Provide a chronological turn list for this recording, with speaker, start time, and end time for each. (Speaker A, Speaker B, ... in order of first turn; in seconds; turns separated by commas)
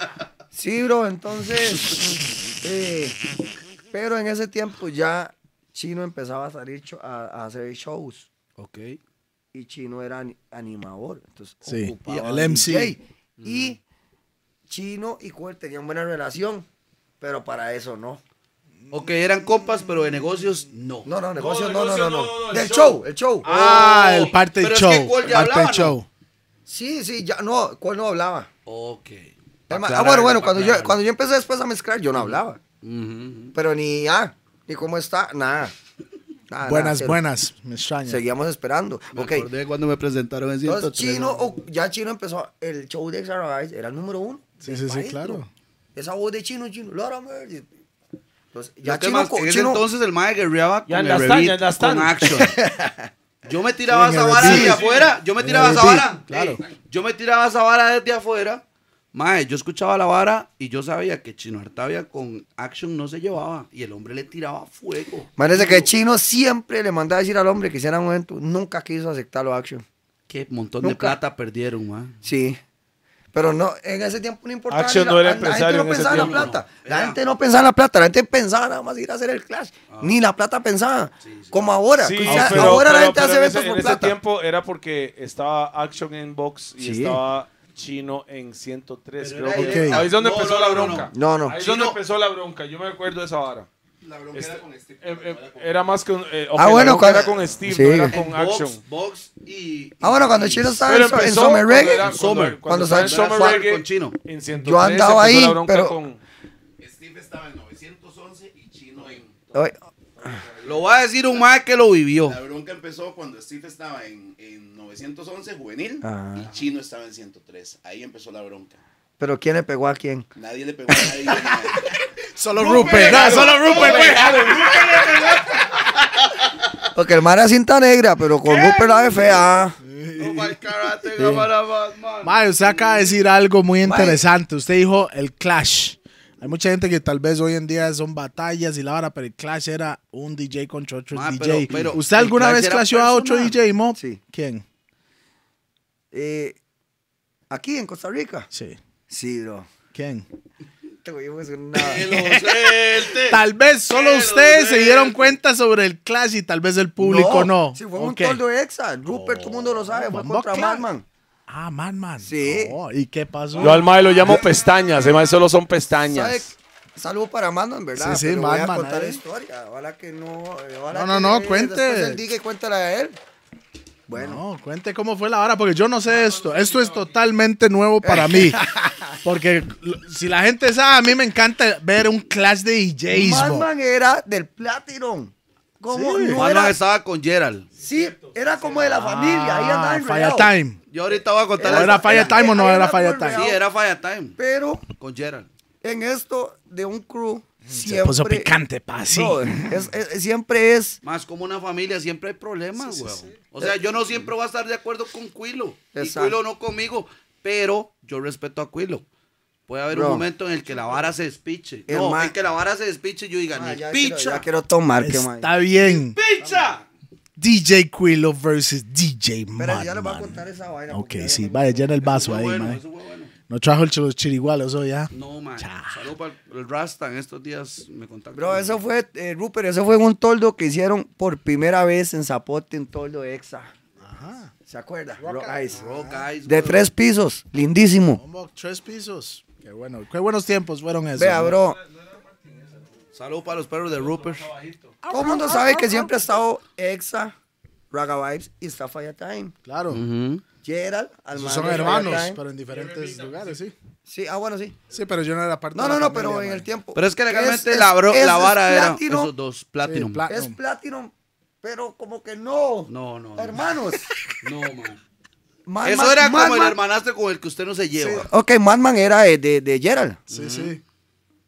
Speaker A: 0.5-3.2, Speaker A: 3.9-8.3, Speaker B: 8.6-9.0, Speaker A: 9.5-13.8, Speaker C: 11.7-12.9, Speaker B: 11.9-12.6, Speaker B: 13.4-13.7, Speaker A: 14.7-16.7, Speaker A: 17.2-18.2, Speaker B: 18.9-21.1, Speaker A: 21.1-23.5, Speaker D: 21.4-23.0, Speaker B: 23.4-26.0, Speaker C: 23.4-26.1, Speaker A: 26.7-28.5, Speaker B: 28.7-31.0, Speaker A: 29.7-32.6, Speaker B: 32.1-33.5, Speaker A: 33.5-35.7, Speaker A: 36.5-37.2, Speaker C: 36.6-38.2, Speaker A: 38.1-39.5, Speaker B: 39.1-41.5, Speaker A: 40.6-45.4, Speaker C: 44.6-45.5, Speaker A: 46.0-47.7, Speaker A: 48.5-49.8, Speaker B: 48.8-52.6, Speaker D: 50.9-52.3, Speaker A: 52.3-53.1, Speaker B: 53.5-58.6, Speaker C: 53.9-54.8, Speaker A: 54.3-54.8, Speaker D: 54.5-55.1, Speaker C: 55.4-56.6, Speaker A: 55.5-56.0, Speaker B: 59.1-65.9, Speaker A: 65.4-69.8, Speaker B: 70.3-72.2, Speaker A: 70.8-71.2, Speaker A: 72.2-72.6, Speaker A: 73.3-84.2, Speaker D: 74.7-76.5, Speaker B: 76.1-77.2, Speaker B: 79.9-80.2, Speaker B: 81.2-81.7, Speaker D: 82.0-93.7, Speaker C: 82.2-82.9, Speaker A: 86.8-87.2, Speaker B: 89.2-92.0, Speaker E: 89.4-90.0, Speaker C: 89.5-90.0, Speaker A: 90.8-91.6, Speaker E: 94.0-95.9, Speaker D: 94.3-98.8, Speaker A: 96.5-98.2, Speaker B: 98.1-100.8, Speaker A: 100.0-103.7, Speaker D: 100.9-106.2, Speaker B: 101.9-104.2, Speaker A: 104.6-106.0, Speaker E: 106.8-109.7, Speaker E: 110.2-111.0, Speaker B: 110.6-112.4, Speaker E: 112.2-118.8, Speaker A: 116.0-116.5, Speaker A: 119.2-120.3, Speaker E: 120.4-121.9, Speaker A: 120.9-121.6, Speaker C: 122.4-124.2, Speaker D: 122.7-125.3, Speaker E: 122.7-125.6, Speaker B: 123.0-123.9, Speaker B: 124.8-125.2, Speaker A: 127.0-129.8, Speaker D: 128.5-129.0, Speaker C: 129.8-130.6, Speaker B: 130.2-133.1, Speaker A: 131.2-131.5, Speaker C: 132.2-144.6, Speaker A: 133.8-134.2, Speaker B: 141.1-143.6, Speaker A: 143.9-144.2, Speaker A: 146.1-146.6, Speaker A: 147.5-148.5, Speaker C: 148.5-148.8, Speaker A: 149.1-149.7, Speaker C: 149.9-150.3, Speaker A: 151.0-152.2, Speaker B: 151.8-155.4, Speaker C: 151.9-158.4, Speaker A: 157.0-161.1, Speaker C: 159.1-160.9, Speaker C: 161.5-163.8, Speaker A: 162.2-162.8, Speaker D: 163.6-166.5, Speaker A: 166.1-173.2, Speaker C: 168.0-169.2, Speaker C: 170.9-172.2, Speaker A: 174.1-174.4, Speaker C: 174.1-178.6, Speaker E: 176.3-177.1, Speaker A: 178.0-179.1, Speaker C: 179.2-183.7, Speaker A: 183.1-186.8, Speaker C: 185.9-186.4, Speaker B: 186.3-187.7, Speaker A: 187.8-190.5, Speaker D: 187.8-188.6, Speaker C: 188.9-190.8, Speaker B: 190.9-192.4, Speaker A: 191.6-193.6, Speaker C: 191.7-193.5, Speaker B: 193.3-194.4, Speaker A: 194.4-194.9, Speaker B: 195.0-195.5, Speaker A: 195.8-198.5, Speaker C: 197.7-199.8, Speaker A: 199.1-201.0, Speaker B: 201.0-209.1, Speaker C: 202.8-203.3, Speaker A: 205.9-206.4, Speaker B: 209.7-214.5, Speaker A: 209.9-210.2, Speaker A: 211.9-212.3, Speaker A: 213.5-215.5, Speaker C: 215.0-216.2, Speaker B: 215.8-216.8, Speaker C: 217.4-222.8, Speaker A: 219.6-222.2, Speaker B: 222.0-223.3, Speaker C: 223.5-226.1, Speaker B: 225.1-228.8, Speaker A: 228.3-233.7, Speaker C: 234.0-234.5, Speaker A: 234.7-235.9, Speaker C: 235.2-236.2, Speaker B: 235.7-236.8, Speaker A: 236.4-238.2, Speaker C: 238.2-241.6, Speaker A: 241.2-241.8, Speaker D: 242.4-242.9, Speaker B: 243.1-244.5, Speaker D: 243.9-245.0, Speaker C: 245.0-246.1, Speaker A: 245.1-247.3, Speaker A: 247.9-249.5, Speaker C: 249.7-250.0, Speaker B: 249.9-250.4, Speaker A: 250.6-252.4, Speaker C: 251.3-253.7, Speaker D: 252.7-253.6, Speaker A: 254.1-254.8, Speaker C: 254.9-256.7, Speaker A: 255.7-259.3, Speaker B: 256.9-260.2, Speaker C: 259.8-260.6, Speaker A: 260.3-264.1, Speaker B: 262.9-263.6, Speaker B: 264.4-265.0, Speaker A: 265.7-266.8, Speaker B: 265.8-268.3, Speaker A: 268.2-270.2, Speaker B: 270.3-270.8, Speaker C: 270.3-270.8